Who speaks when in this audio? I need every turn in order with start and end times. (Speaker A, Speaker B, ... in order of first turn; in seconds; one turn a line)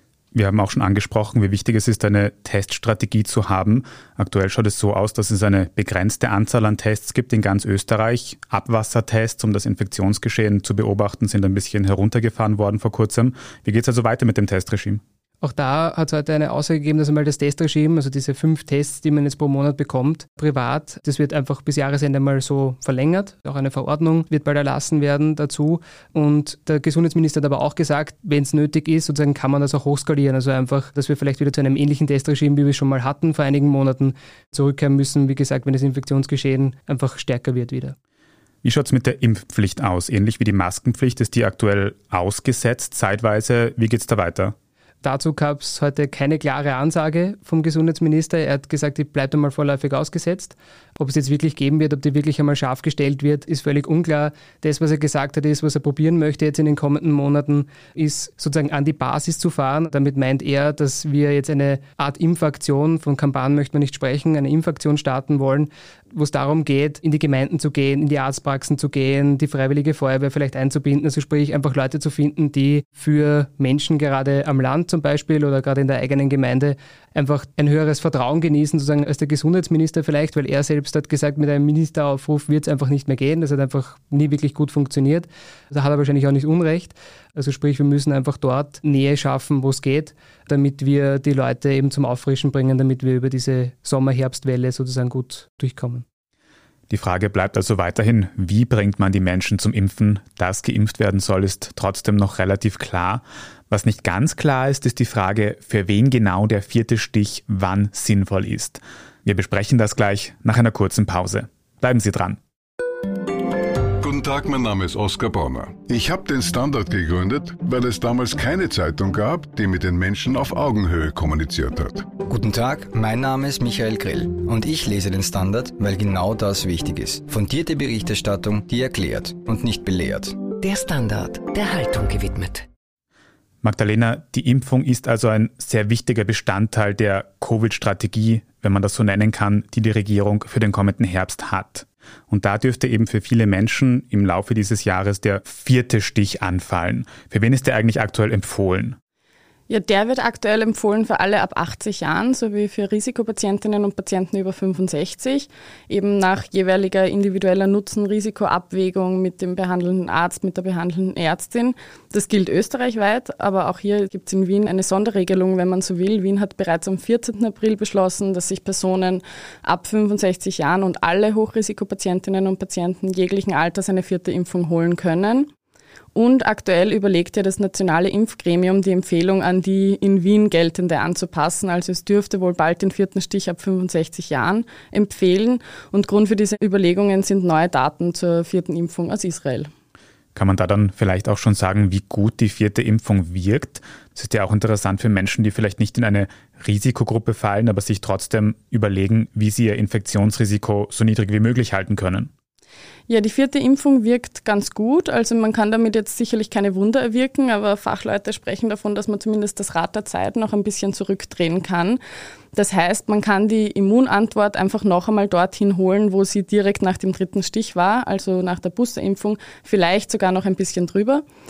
Speaker A: 0.3-15.0
Speaker B: 15.4-38.0
Speaker A: 38.6-44.5
Speaker B: 45.0-96.0
Speaker A: 96.9-112.4
Speaker C: 114.0-122.1
Speaker D: 122.2-130.4
Speaker E: 130.6-132.7
Speaker A: 133.6-149.0
Speaker F: 149.7-175.5
Speaker F: 176.1-189.7
Speaker A: 190.3-202.3
Speaker F: 203.1-212.0
Speaker F: 212.5-221.2